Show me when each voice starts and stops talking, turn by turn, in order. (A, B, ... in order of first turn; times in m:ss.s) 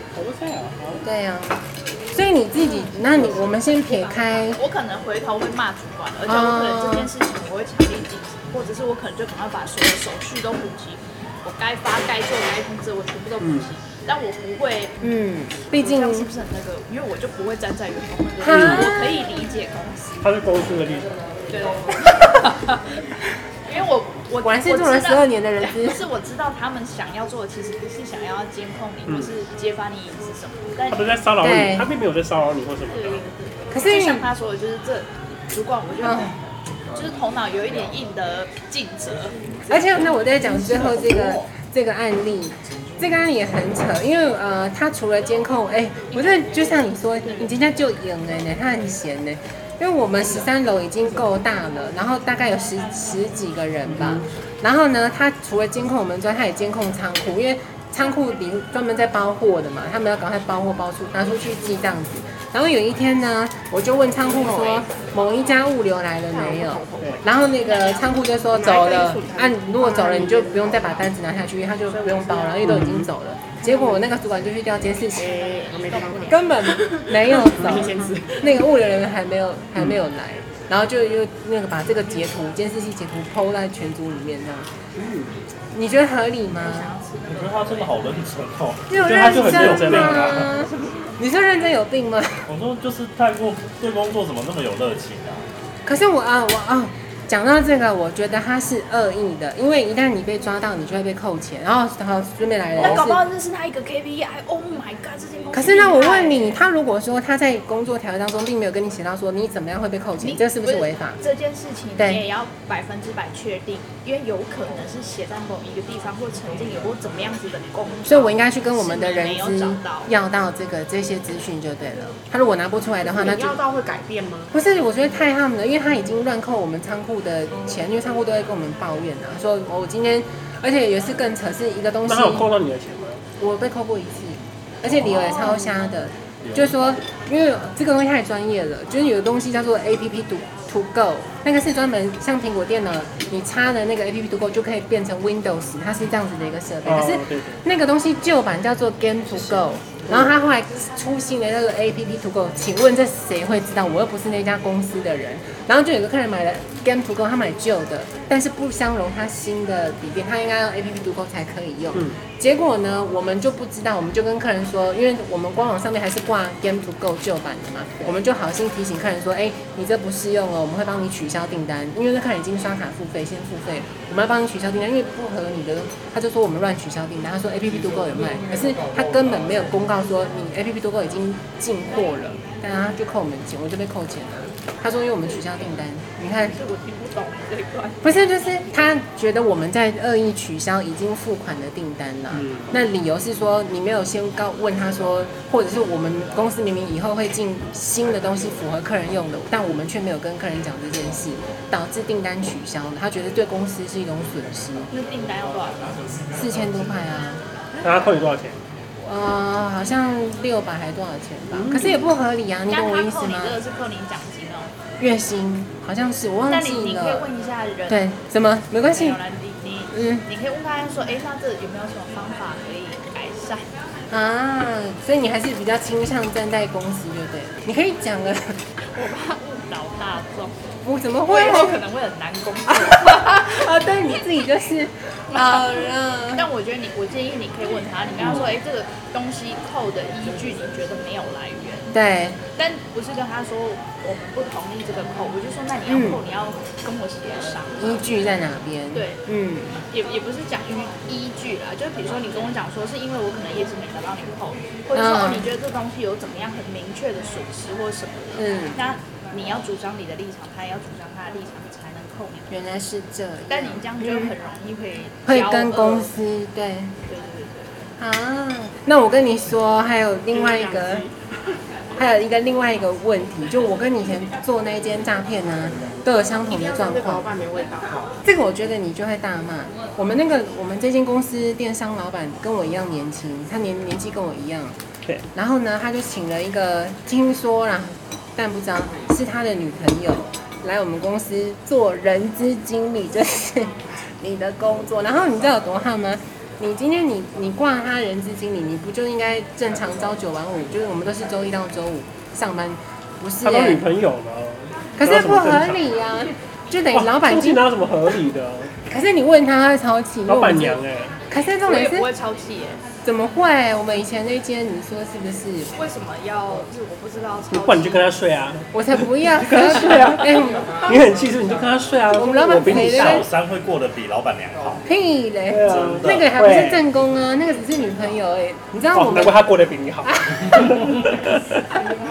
0:00.1-0:01.0 A
0:01.0-0:04.6 B
0:02.7-0:03.0 C
0:03.5-0:15.1 C
0:06.2-0:07.1 B
0:13.4-0:13.7 A
0:15.0-0:16.3 B
0:15.8-0:20.3 C
0:18.4-0:19.2 B
0:18.5-0:18.9 A
0:20.2-0:21.2 A
0:21.5-0:31.2 C
0:24.4-0:26.0 B
0:29.1-0:29.3 A
0:30.9-0:33.2 A
0:31.4-0:31.9 B
0:32.9-0:36.4 C
0:33.7-0:34.3 B
0:36.0-0:36.4 B
0:37.0-0:40.2 C
0:39.7-1:15.3 B
0:40.5-0:41.4 A
0:53.9-0:54.3 A
1:04.3-1:04.9 D
1:06.3-1:07.2 D
1:07.4-1:08.2 C
1:08.5-1:11.0 D
1:11.9-1:12.8 C
1:12.6-1:13.1 A
1:13.7-1:14.0 D
1:15.1-1:18.6 D
1:15.2-1:16.4 C
1:16.3-1:24.7 B
1:25.0-1:25.4 A
1:25.7-1:26.9 B
1:26.6-1:28.2 C
1:27.3-1:30.5 E
1:28.9-1:32.5 B
1:29.0-1:30.5 A
1:30.6-1:30.9 C
1:32.5-1:35.5 E
1:35.8-1:43.2 B
1:42.8-1:46.6 C
1:45.5-1:51.2 B
1:50.2-2:00.1 C
1:52.0-1:52.2 B
1:58.1-2:03.6 B
2:03.0-2:04.6 D
2:04.5-2:12.5 B
2:12.0-2:13.2 A
2:13.4-3:06.6 B
2:15.1-2:15.8 C
2:26.8-2:27.6 A
2:29.4-2:30.3 A
2:41.9-2:42.2 A
3:06.5-3:08.0 C
3:08.0-3:24.9 B
3:12.3-3:12.7 A
3:24.9-3:26.2 C
3:26.3-3:27.4 B
3:27.8-3:28.6 A
3:29.0-3:33.6 B
3:31.5-3:32.1 A
3:32.7-3:34.7 C
3:35.0-3:37.3 B
3:36.5-3:38.0 C
3:37.9-3:39.2 B
3:38.9-3:43.8 C
3:39.9-3:40.3 B
3:44.1-3:48.6 B
3:48.9-3:50.6 C
3:50.8-3:51.8 B
3:51.3-3:53.7 C
3:52.8-3:56.5 B
3:55.3-4:02.0 C
4:01.9-4:02.4 B
4:02.6-4:08.0 C
4:05.9-4:06.2 B
4:07.8-4:09.8 B
4:08.9-4:09.2 C
4:09.9-4:22.5 C
4:14.9-4:15.5 B
4:18.4-4:18.8 B
4:22.5-4:24.3 B
4:23.5-4:26.1 C
4:25.3-4:27.0 B
4:27.1-4:27.9 C
4:28.0-4:31.1 B
4:30.3-4:31.2 D
4:32.0-4:37.3 B
4:36.5-4:38.1 D
4:38.2-4:44.8 B
4:45.4-5:03.9 B
5:03.4-5:05.8 A
5:05.0-5:07.6 B
5:06.9-5:08.8 A
5:08.9-5:12.1 B
5:10.3-5:11.2 A
5:11.6-5:12.8 C
5:13.0-5:15.8 B
5:15.7-5:18.1 C
5:17.5-5:23.3 A
5:18.7-5:21.0 B
5:22.1-5:23.3 B
5:22.7-5:24.9 E
5:24.8-5:29.5 B
5:25.5-5:26.9 A
5:25.6-5:26.3 E
5:28.9-5:31.6 A
5:30.0-5:31.1 B